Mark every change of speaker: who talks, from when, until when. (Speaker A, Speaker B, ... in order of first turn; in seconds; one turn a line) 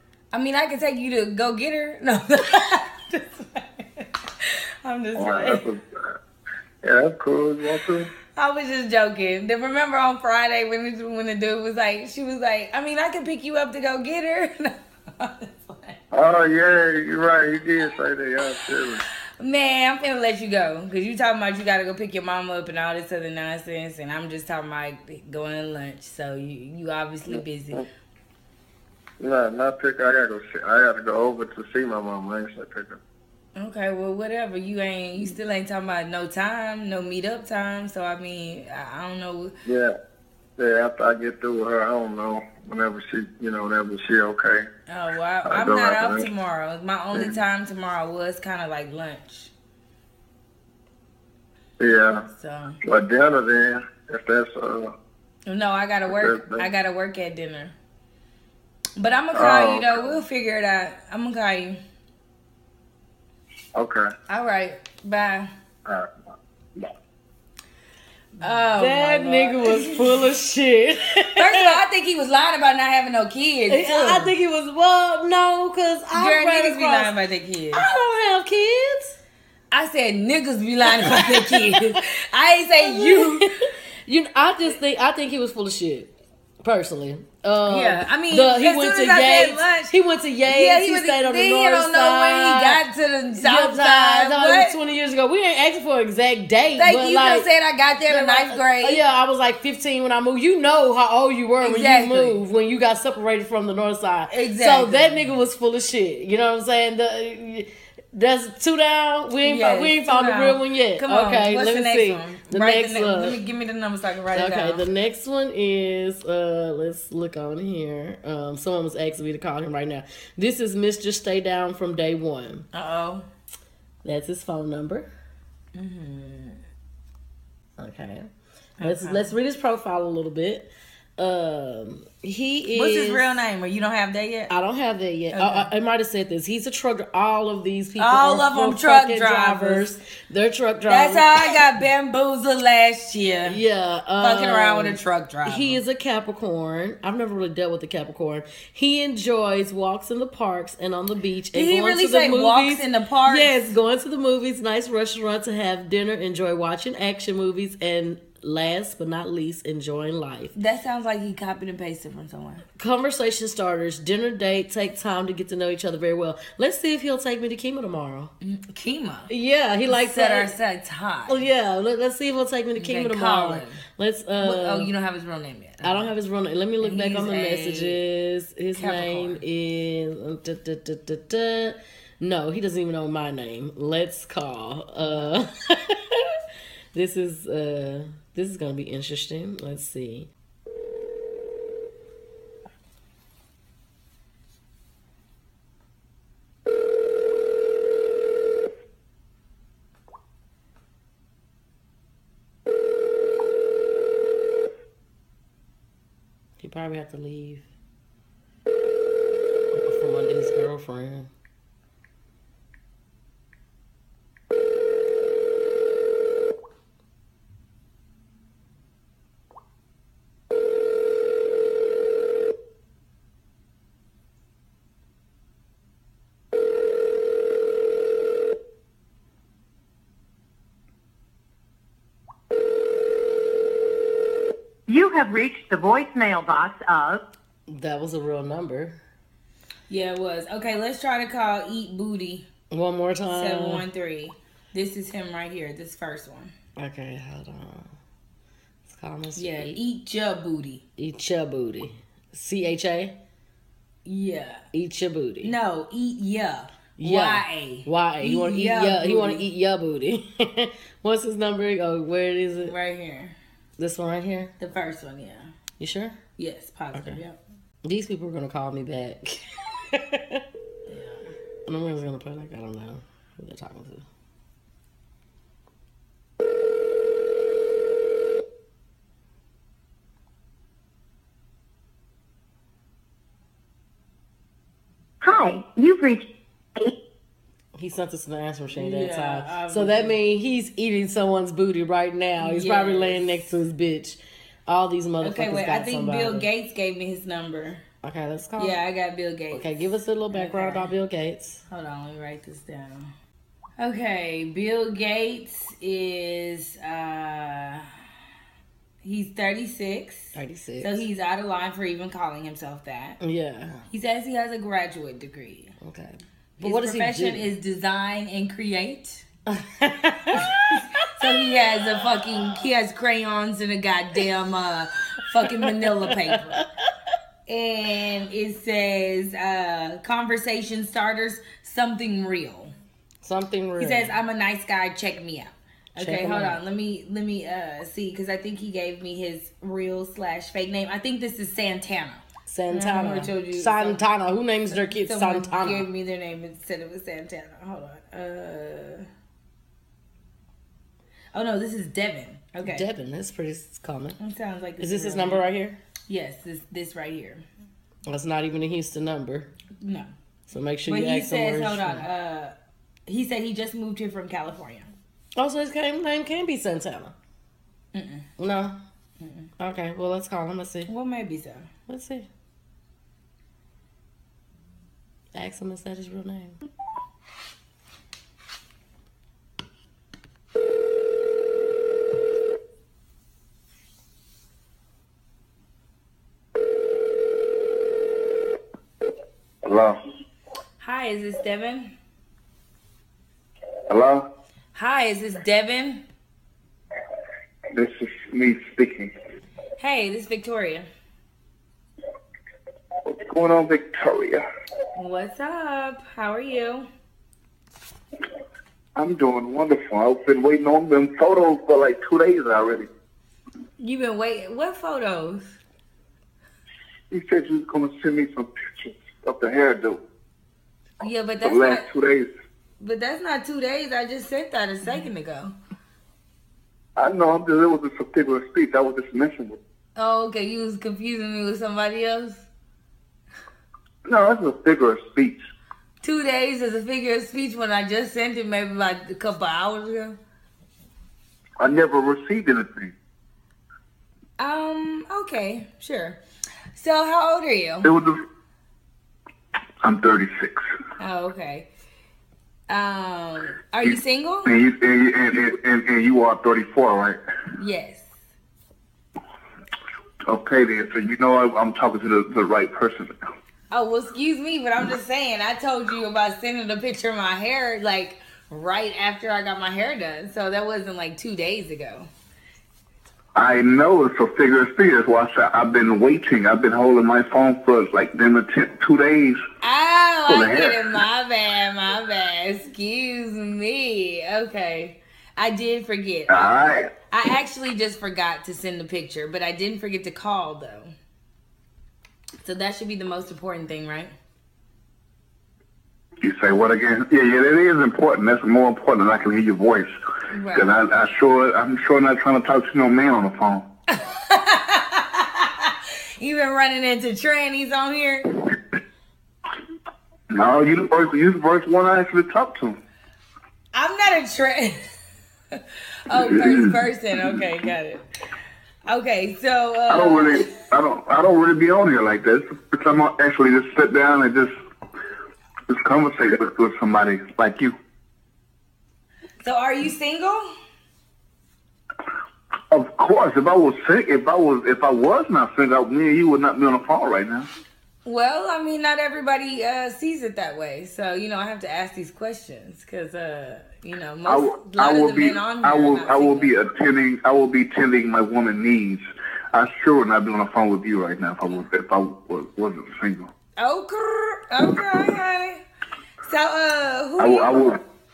Speaker A: 0.3-5.6
Speaker B: 5.2-6.2
Speaker B: 6.8-8.1
Speaker A: 8.3-16.0
Speaker B: 16.1-19.0
Speaker A: 19.4-27.9
Speaker B: 27.3-27.8
Speaker B: 29.2-33.0
Speaker A: 33.6-39.5
Speaker B: 39.7-40.0
Speaker B: 40.6-44.7
Speaker A: 44.9-49.5
Speaker B: 45.5-46.3
Speaker B: 47.1-47.4
Speaker B: 51.8-52.3
Speaker A: 52.4-52.8
Speaker B: 52.8-54.9
Speaker A: 55.5-57.8
Speaker B: 56.1-56.7
Speaker A: 59.0-61.8
Speaker B: 59.3-60.1
Speaker B: 63.7-64.1
Speaker A: 64.3-65.5
Speaker B: 65.9-66.1
Speaker A: 68.4-70.3
Speaker C: 68.8-71.8
Speaker A: 71.4-74.3
Speaker C: 73.7-77.1
Speaker A: 76.1-77.9
Speaker C: 77.7-79.2
Speaker A: 79.7-83.5
Speaker C: 80.9-82.0
Speaker C: 82.8-83.5
Speaker C: 84.1-86.1
Speaker C: 86.6-92.8
Speaker A: 87.7-89.9
Speaker A: 90.5-94.8
Speaker C: 93.4-97.5
Speaker A: 96.8-99.0
Speaker C: 98.1-113.4
Speaker A: 101.6-102.4
Speaker A: 104.3-105.3
Speaker A: 109.4-114.8
Speaker C: 114.3-122.7
Speaker A: 122.7-123.3
Speaker C: 124.0-125.1
Speaker A: 125.8-126.6
Speaker C: 127.8-128.3
Speaker A: 128.8-129.3
Speaker C: 128.8-133.3
Speaker A: 132.7-134.5
Speaker C: 134.5-141.6
Speaker A: 135.3-135.7
Speaker A: 138.0-139.9
Speaker A: 140.9-143.6
Speaker C: 143.5-160.5
Speaker A: 144.2-145.8
Speaker A: 151.5-153.6
Speaker A: 160.6-162.7
Speaker C: 162.8-168.3
Speaker A: 168.4-169.3
Speaker C: 169.3-170.5
Speaker A: 169.9-171.5
Speaker C: 171.3-174.9
Speaker A: 172.8-173.8
Speaker A: 174.4-176.1
Speaker C: 175.8-186.3
Speaker A: 176.8-178.0
Speaker A: 178.8-179.4
Speaker A: 185.0-185.3
Speaker C: 186.9-190.3
Speaker C: 206.6-207.7
Speaker C: 209.7-211.3
Speaker D: 234.9-237.2
Speaker C: 237.7-239.0
Speaker A: 239.9-242.5
Speaker C: 242.7-243.8
Speaker A: 243.3-246.5
Speaker C: 246.8-247.9
Speaker C: 248.9-249.8
Speaker A: 249.4-250.8
Speaker C: 251.0-253.2
Speaker A: 254.1-254.7
Speaker C: 254.7-255.5
Speaker A: 255.4-259.4
Speaker C: 257.0-262.7
Speaker A: 262.6-263.4
Speaker C: 263.8-264.5
Speaker A: 264.6-265.5
Speaker C: 265.8-266.2
Speaker A: 266.4-267.4
Speaker C: 266.9-267.2
Speaker C: 267.8-270.4
Speaker A: 270.9-271.3
Speaker C: 271.7-274.1
Speaker D: 285.2-286.3
Speaker C: 287.8-296.5
Speaker A: 288.7-290.2
Speaker A: 292.4-293.4
Speaker A: 295.2-297.8
Speaker C: 298.0-298.8
Speaker A: 298.6-300.9
Speaker C: 299.5-301.6
Speaker A: 301.7-303.1
Speaker A: 303.8-307.9
Speaker A: 309.0-313.2
Speaker C: 310.3-311.0
Speaker C: 313.2-313.9
Speaker A: 313.9-315.7
Speaker C: 315.8-317.5
Speaker A: 316.6-319.3
Speaker C: 319.5-321.5
Speaker A: 321.1-326.6
Speaker C: 325.5-326.6
Speaker A: 327.5-332.7
Speaker C: 333.2-334.1
Speaker A: 333.8-344.0
Speaker C: 336.0-336.6
Speaker C: 342.5-345.9
Speaker A: 344.7-349.1
Speaker A: 351.3-352.8
Speaker C: 352.6-354.2
Speaker A: 354.2-355.4
Speaker C: 354.8-355.8
Speaker A: 356.1-357.4
Speaker C: 358.1-359.5
Speaker A: 359.8-360.1
Speaker C: 360.5-362.1
Speaker A: 360.9-362.5
Speaker A: 363.1-364.9
Speaker C: 365.4-367.1
Speaker A: 367.9-368.3
Speaker C: 368.4-368.8
Speaker A: 369.2-369.5
Speaker C: 369.6-370.9
Speaker A: 370.9-371.7
Speaker C: 371.9-372.3
Speaker C: 375.4-376.6
Speaker E: 389.6-390.0
Speaker A: 390.8-391.9
Speaker E: 393.9-394.3
Speaker A: 394.8-396.0
Speaker E: 397.7-399.1
Speaker A: 399.8-400.9
Speaker E: 403.1-404.4
Speaker A: 405.0-406.9
Speaker E: 409.0-412.9
Speaker A: 413.8-415.6
Speaker E: 417.1-420.0
Speaker A: 421.0-421.9
Speaker E: 421.4-422.3
Speaker A: 422.8-425.5
Speaker E: 427.0-429.6
Speaker A: 430.0-432.5
Speaker E: 434.1-435.4
Speaker A: 436.0-440.2
Speaker E: 441.6-442.9
Speaker A: 444.4-446.2
Speaker A: 446.7-447.9
Speaker E: 447.8-448.2
Speaker E: 449.8-450.7
Speaker A: 451.0-451.7
Speaker A: 452.7-454.5
Speaker E: 454.5-457.2
Speaker A: 457.6-458.1
Speaker E: 460.3-463.2
Speaker A: 463.7-472.1
Speaker E: 473.4-479.4
Speaker A: 479.6-486.5
Speaker E: 480.3-480.9
Speaker E: 486.3-486.9
Speaker A: 487.1-490.9
Speaker A: 492.4-494.1
Speaker E: 496.2-499.9
Speaker A: 500.3-500.7
Speaker E: 500.5-503.7
Speaker A: 503.9-508.4
Speaker E: 510.3-512.8
Speaker A: 513.7-514.9
Speaker A: 515.5-518.0
Speaker E: 516.2-516.8
Speaker A: 518.9-520.5
Speaker E: 519.9-524.5
Speaker E: 525.7-527.8
Speaker A: 529.4-530.5
Speaker E: 532.7-537.5
Speaker A: 538.0-546.5
Speaker E: 544.3-553.3
Speaker A: 553.6-555.6
Speaker A: 556.3-557.8
Speaker E: 557.2-557.8